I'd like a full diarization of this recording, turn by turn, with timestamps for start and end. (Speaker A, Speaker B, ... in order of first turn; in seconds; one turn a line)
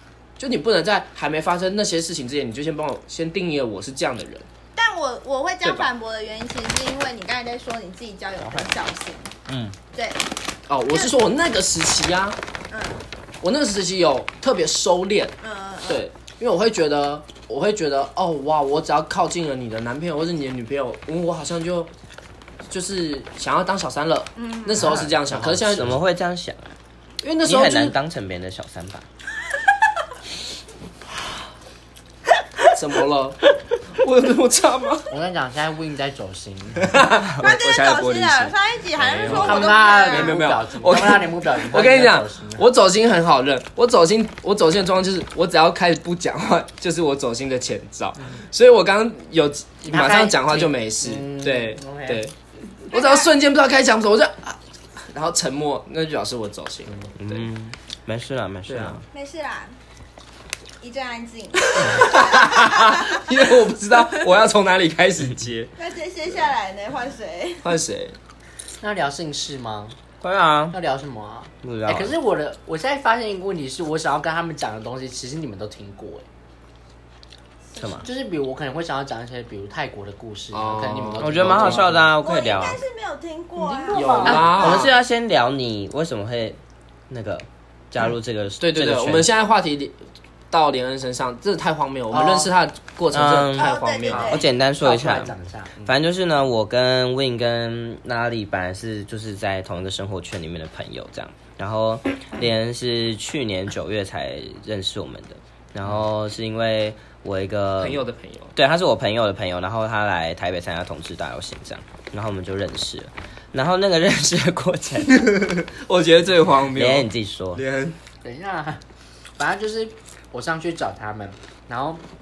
Speaker A: 0.4-4.5
Speaker B: 4.8-9.3
Speaker A: 5.6-5.9
Speaker C: 9.5-9.7
Speaker B: 9.9-10.2
Speaker A: 10.7-12.4
Speaker B: 12.7-13.0
Speaker A: 13.4-21.9
Speaker B: 15.4-16.0
Speaker A: 22.6-26.0
Speaker B: 24.4-24.8
Speaker C: 24.8-26.7
Speaker A: 27.2-28.0
Speaker C: 27.4-29.1
Speaker A: 32.7-35.1
Speaker D: 35.1-37.0
Speaker A: 36.8-52.3
Speaker B: 37.4-40.4
Speaker D: 39.2-42.6
Speaker D: 49.8-52.2
Speaker A: 52.9-57.5
Speaker B: 52.9-53.3
Speaker C: 57.2-59.0
Speaker A: 58.6-59.0
Speaker B: 59.1-59.8
Speaker B: 60.8-63.3
Speaker A: 61.8-65.7
Speaker B: 65.8-67.6
Speaker A: 67.6-68.2
Speaker D: 68.8-70.0
Speaker C: 70.2-70.8
Speaker D: 70.7-76.2
Speaker C: 71.6-72.1
Speaker C: 77.8-78.0
Speaker D: 78.0-82.1
Speaker A: 80.5-82.1
Speaker C: 81.2-82.8
Speaker B: 82.2-84.5
Speaker D: 83.6-84.8
Speaker A: 83.9-84.9
Speaker C: 84.2-89.3
Speaker A: 88.6-90.0
Speaker A: 90.5-94.4
Speaker D: 92.1-92.5
Speaker C: 93.1-108.0
Speaker B: 93.5-94.5
Speaker D: 94.1-95.9
Speaker A: 107.8-108.5
Speaker C: 108.5-115.3
Speaker A: 115.1-118.0
Speaker C: 116.7-117.6
Speaker D: 118.2-118.8
Speaker D: 119.4-122.0